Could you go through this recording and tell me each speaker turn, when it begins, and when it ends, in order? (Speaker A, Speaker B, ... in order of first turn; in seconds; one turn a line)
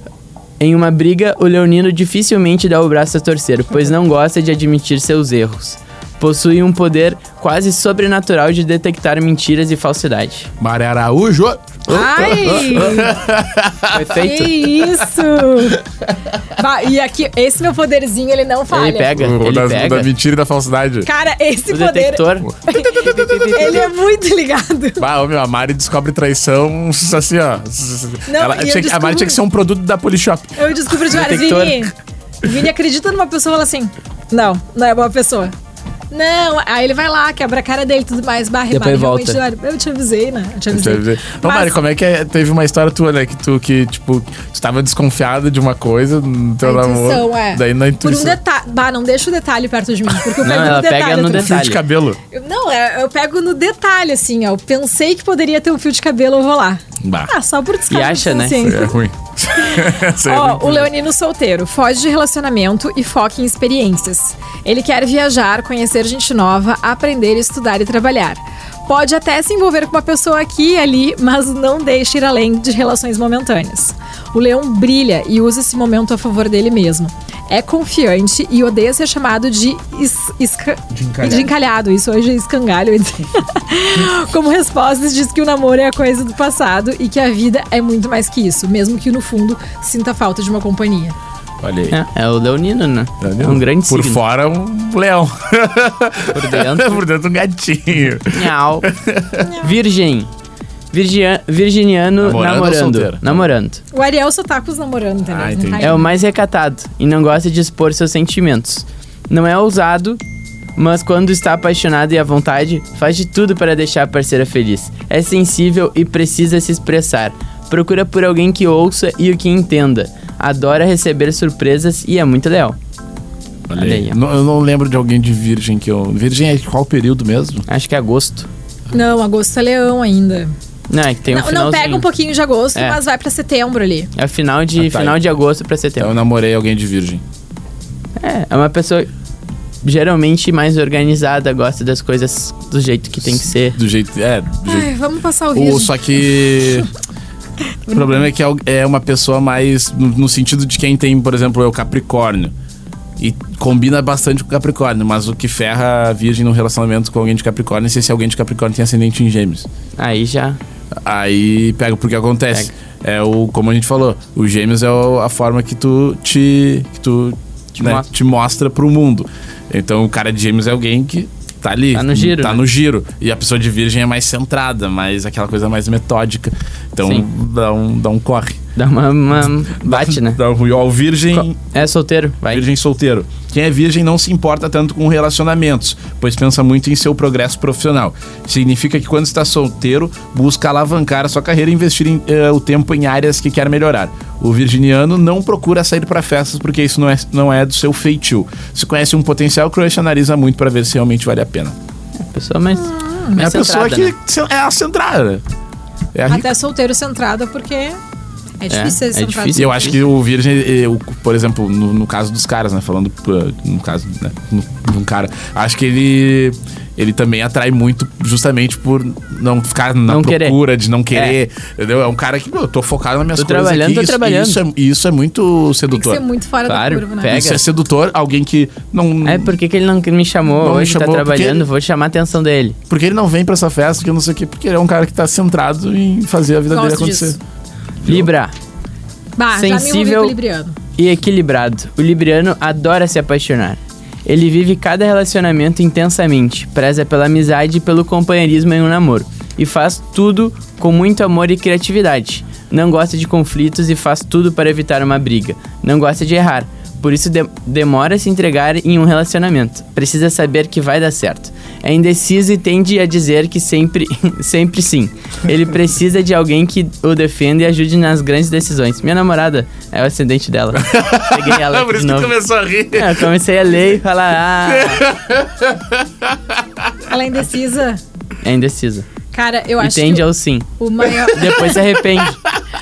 Speaker A: 0.6-10.5
Speaker B: 10.6-15.1
Speaker A: 11.9-13.1
Speaker C: 11.9-13.1
Speaker A: 13.9-14.6
Speaker C: 14.2-15.8
Speaker C: 16.6-19.1
Speaker A: 18.7-20.1
Speaker B: 19.1-21.1
Speaker C: 21.1-25.1
Speaker A: 21.7-23.9
Speaker B: 25.0-30.6
Speaker C: 28.3-29.4
Speaker C: 30.6-35.5
Speaker A: 31.1-31.9
Speaker C: 36.1-41.7
Speaker A: 38.7-39.4
Speaker B: 40.7-48.4
Speaker C: 46.6-51.6
Speaker A: 50.4-51.8
Speaker B: 51.3-52.2
Speaker C: 52.3-59.0
Speaker B: 57.0-57.3
Speaker A: 57.9-58.7
Speaker B: 58.6-60.9
Speaker C: 59.6-91.2
Speaker B: 80.9-81.5
Speaker B: 91.6-92.0
Speaker A: 91.9-94.2
Speaker B: 93.2-99.5
Speaker A: 96.3-97.0
Speaker A: 98.3-98.9
Speaker A: 99.6-100.3
Speaker A: 100.9-103.8
Speaker B: 102.2-103.4
Speaker C: 103.9-106.1
Speaker B: 105.3-106.0
Speaker A: 105.8-110.2
Speaker A: 110.8-122.8
Speaker B: 123.7-127.7
Speaker A: 123.8-124.2
Speaker A: 127.7-128.5
Speaker C: 128.9-130.5
Speaker A: 130.9-132.1
Speaker C: 131.3-134.1
Speaker A: 134.2-136.1
Speaker B: 134.8-135.2
Speaker B: 136.0-137.2
Speaker A: 138.2-139.1
Speaker A: 139.8-143.8
Speaker B: 143.3-144.9
Speaker C: 144.7-146.8
Speaker B: 145.5-146.9
Speaker C: 147.9-148.2
Speaker B: 147.9-152.5
Speaker B: 153.2-159.7
Speaker A: 160.0-160.6
Speaker B: 161.0-178.6
Speaker A: 167.8-168.1
Speaker A: 171.9-172.6
Speaker A: 178.8-180.4
Speaker B: 179.8-181.6
Speaker A: 181.3-182.7
Speaker B: 182.5-201.8
Speaker A: 202.2-204.1
Speaker C: 202.8-203.4
Speaker B: 203.4-205.4
Speaker B: 206.1-206.5
Speaker C: 206.3-208.0
Speaker C: 208.6-209.9
Speaker A: 208.7-210.0
Speaker B: 209.6-226.2
Speaker A: 220.1-220.6
Speaker A: 223.4-224.6
Speaker C: 225.9-227.4
Speaker A: 226.7-227.6
Speaker B: 227.3-229.6
Speaker A: 229.2-232.8
Speaker B: 230.6-231.7
Speaker B: 232.9-237.4
Speaker C: 236.7-237.4
Speaker B: 238.0-238.3
Speaker A: 238.1-238.6
Speaker C: 239.4-240.8
Speaker A: 239.6-240.3
Speaker A: 241.0-272.3
Speaker B: 270.8-273.4
Speaker A: 272.9-275.0
Speaker B: 274.6-276.9
Speaker C: 277.1-278.0
Speaker A: 278.4-279.1
Speaker C: 279.3-281.9
Speaker A: 279.8-280.7
Speaker A: 281.2-282.4
Speaker B: 281.7-282.6